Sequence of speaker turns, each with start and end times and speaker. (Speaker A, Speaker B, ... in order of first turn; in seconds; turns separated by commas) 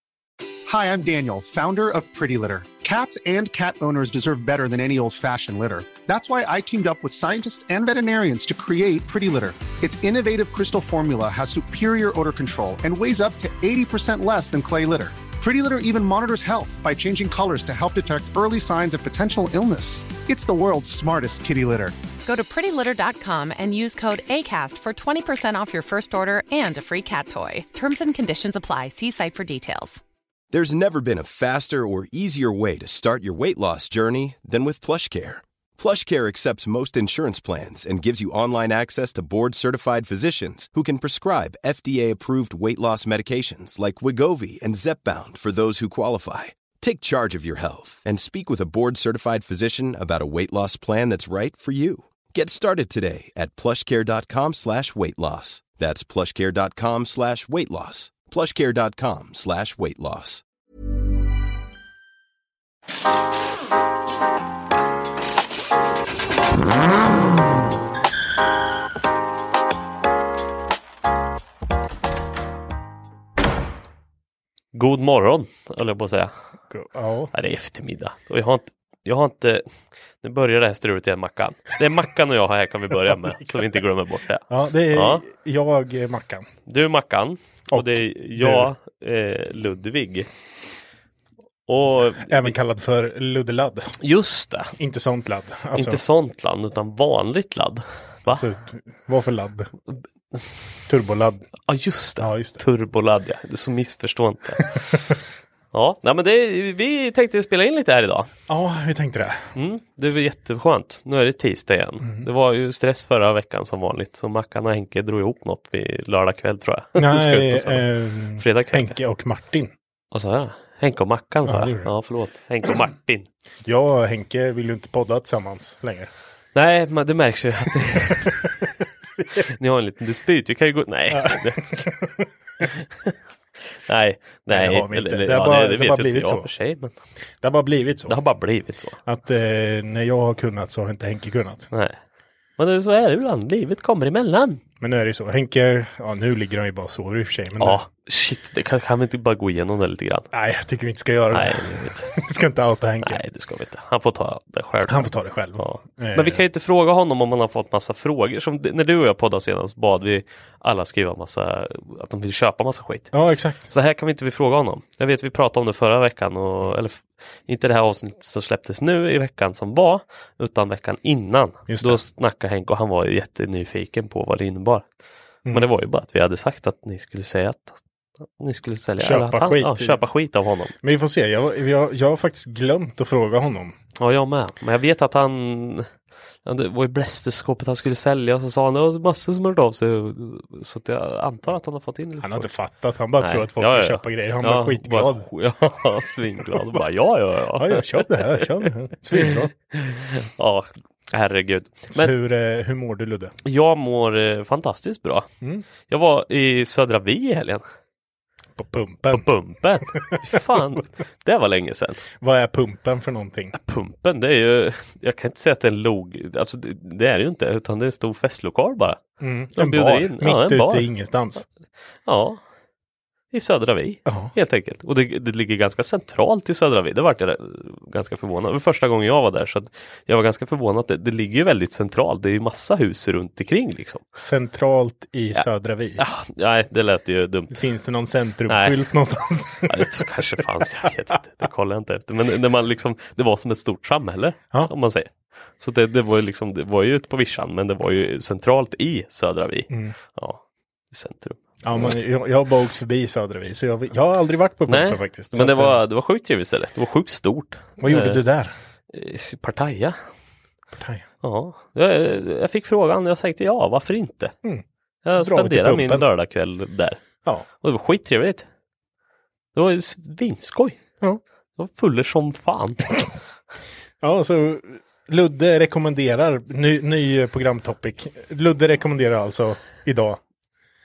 Speaker A: 0.7-21.9, Speaker B: 22.2-30.0, Speaker C: 30.5-60.4, Speaker D: 74.7-76.3, Speaker E: 76.7-77.3, Speaker D: 77.3-79.6, Speaker D: 80.2-85.2, Speaker E: 84.5-86.5, Speaker D: 86.7-90.3, Speaker E: 87.7-88.7, Speaker D: 91.7-92.5, Speaker E: 92.2-94.0, Speaker D: 94.0-94.7, Speaker E: 94.8-96.0, Speaker D: 95.7-98.4, Speaker E: 98.3-99.7, Speaker E: 100.9-101.5, Speaker D: 101.7-105.1, Speaker E: 102.2-102.6, Speaker D: 105.7-108.3, Speaker E: 108.5-109.5, Speaker D: 109.5-118.9, Speaker E: 117.0-119.7, Speaker D: 120.1-123.3, Speaker E: 121.5-121.9, Speaker E: 123.6-126.1, Speaker D: 126.5-128.7, Speaker D: 129.5-132.0, Speaker E: 131.1-132.2, Speaker D: 132.6-133.1, Speaker D: 133.9-136.9, Speaker E: 134.5-136.5, Speaker E: 137.4-138.2, Speaker D: 138.1-139.0, Speaker E: 139.0-141.7, Speaker D: 141.7-142.0, Speaker D: 142.6-144.6, Speaker E: 144.8-147.8, Speaker D: 147.6-150.3, Speaker E: 150.3-153.2, Speaker D: 151.3-152.1, Speaker D: 153.0-163.1, Speaker E: 154.9-156.4, Speaker E: 163.1-163.7, Speaker D: 163.7-174.8, Speaker E: 171.7-172.0, Speaker D: 175.5-177.8, Speaker D: 178.4-180.7, Speaker E: 179.0-180.0, Speaker E: 180.8-183.8, Speaker D: 184.0-185.9, Speaker D: 186.4-192.5, Speaker E: 192.2-195.2, Speaker D: 193.2-202.1, Speaker E: 196.5-196.8, Speaker E: 197.5-199.5, Speaker E: 201.9-203.3, Speaker D: 203.4-205.3, Speaker D: 205.9-207.6, Speaker E: 208.6-209.2, Speaker D: 209.1-212.0, Speaker E: 210.1-210.8, Speaker E: 212.2-213.6, Speaker D: 213.6-219.0, Speaker E: 219.2-221.4, Speaker D: 219.6-220.9, Speaker D: 222.1-222.4, Speaker D: 223.3-234.0, Speaker E: 224.1-224.3, Speaker E: 234.1-236.0, Speaker D: 236.0-237.6, Speaker E: 237.5-240.2, Speaker D: 238.5-238.7, Speaker D: 239.7-251.4, Speaker E: 249.7-249.9, Speaker E: 251.6-255.8, Speaker D: 254.7-258.2, Speaker E: 257.8-258.5, Speaker D: 258.9-260.0, Speaker E: 260.8-261.0, Speaker D: 261.2-264.3, Speaker D: 265.0-267.0, Speaker E: 265.2-266.0, Speaker D: 267.6-268.4, Speaker D: 269.5-270.8, Speaker D: 271.6-273.0, Speaker E: 274.0-280.2